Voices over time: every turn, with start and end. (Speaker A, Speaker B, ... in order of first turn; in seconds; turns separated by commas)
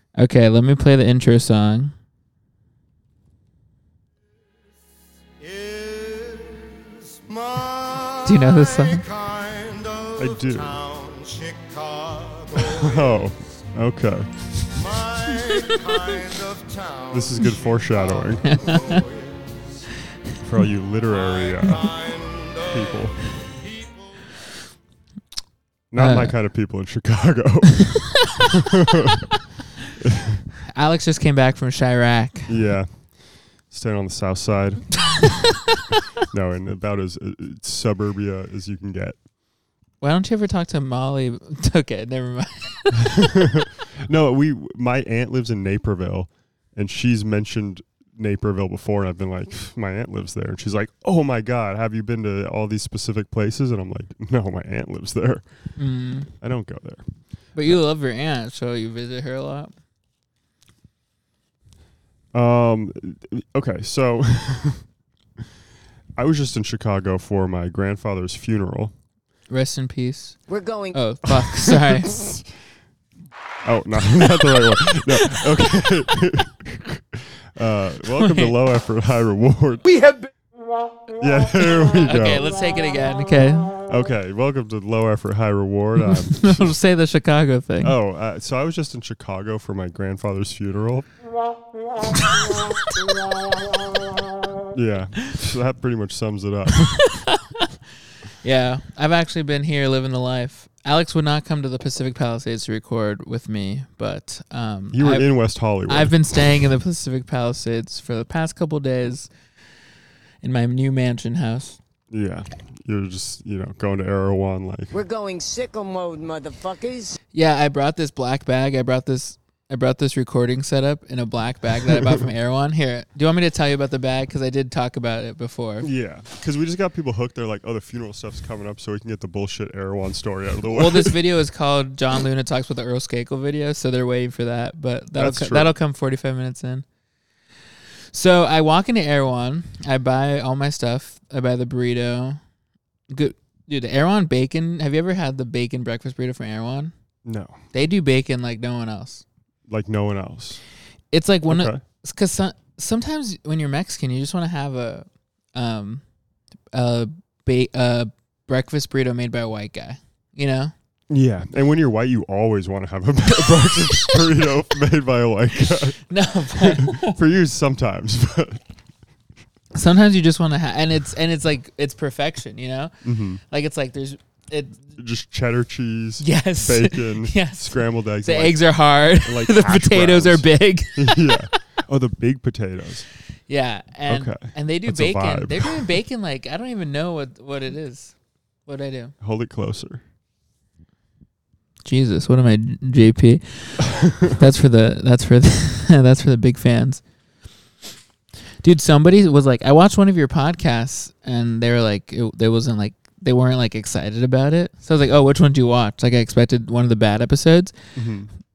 Speaker A: 0.2-1.9, Speaker B: 5.4-13.3, Speaker A: 8.2-9.0, Speaker C: 10.2-10.8, Speaker C: 12.6-14.7, Speaker B: 14.7-19.9, Speaker A: 15.6-16.0, Speaker C: 17.1-18.8, Speaker A: 18.5-19.0, Speaker C: 20.4-21.9, Speaker B: 21.1-24.1, Speaker C: 22.7-23.2, Speaker C: 25.9-29.3, Speaker A: 25.9-26.3, Speaker C: 30.0-30.4, Speaker A: 30.7-32.5, Speaker C: 32.5-35.0, Speaker A: 35.1-35.4, Speaker C: 36.3-39.2, Speaker A: 40.0-43.4, Speaker C: 43.1-55.4, Speaker A: 55.8-56.3, Speaker C: 56.4-57.1, Speaker A: 57.5-59.7, Speaker C: 62.3-64.8, Speaker C: 66.2-68.9, Speaker A: 69.5-70.4, Speaker D: 70.5-71.0, Speaker A: 70.9-72.2, Speaker C: 71.3-72.5, Speaker C: 73.6-79.8, Speaker A: 78.2-78.5, Speaker B: 79.8-80.3, Speaker C: 81.2-82.5, Speaker A: 81.8-83.8, Speaker C: 83.9-86.7, Speaker A: 86.0-87.9, Speaker C: 87.8-91.1, Speaker C: 94.7-97.0, Speaker A: 96.9-97.7, Speaker A: 98.4-109.3, Speaker C: 104.9-106.4, Speaker A: 110.4-111.8, Speaker C: 112.1-114.9, Speaker D: 114.9-117.2, Speaker A: 117.3-125.9, Speaker C: 121.9-122.2, Speaker C: 125.8-131.2, Speaker A: 130.7-136.8, Speaker C: 135.2-135.7, Speaker A: 138.1-142.4, Speaker A: 143.1-146.9, Speaker C: 147.2-147.6, Speaker A: 147.7-149.2, Speaker C: 149.7-150.6, Speaker A: 151.1-156.0, Speaker C: 151.5-151.8, Speaker A: 156.7-160.7, Speaker C: 161.1-166.1, Speaker A: 166.1-167.2, Speaker C: 166.6-168.6, Speaker A: 169.7-172.9, Speaker C: 173.0-173.4, Speaker A: 173.5-174.9, Speaker C: 174.9-178.6, Speaker A: 176.2-181.5, Speaker C: 179.2-183.1, Speaker A: 183.5-188.1, Speaker C: 184.1-185.9, Speaker A: 188.7-189.1, Speaker C: 189.2-190.0, Speaker A: 191.8-197.0, Speaker C: 193.9-194.3, Speaker A: 198.6-207.8, Speaker C: 207.9-208.3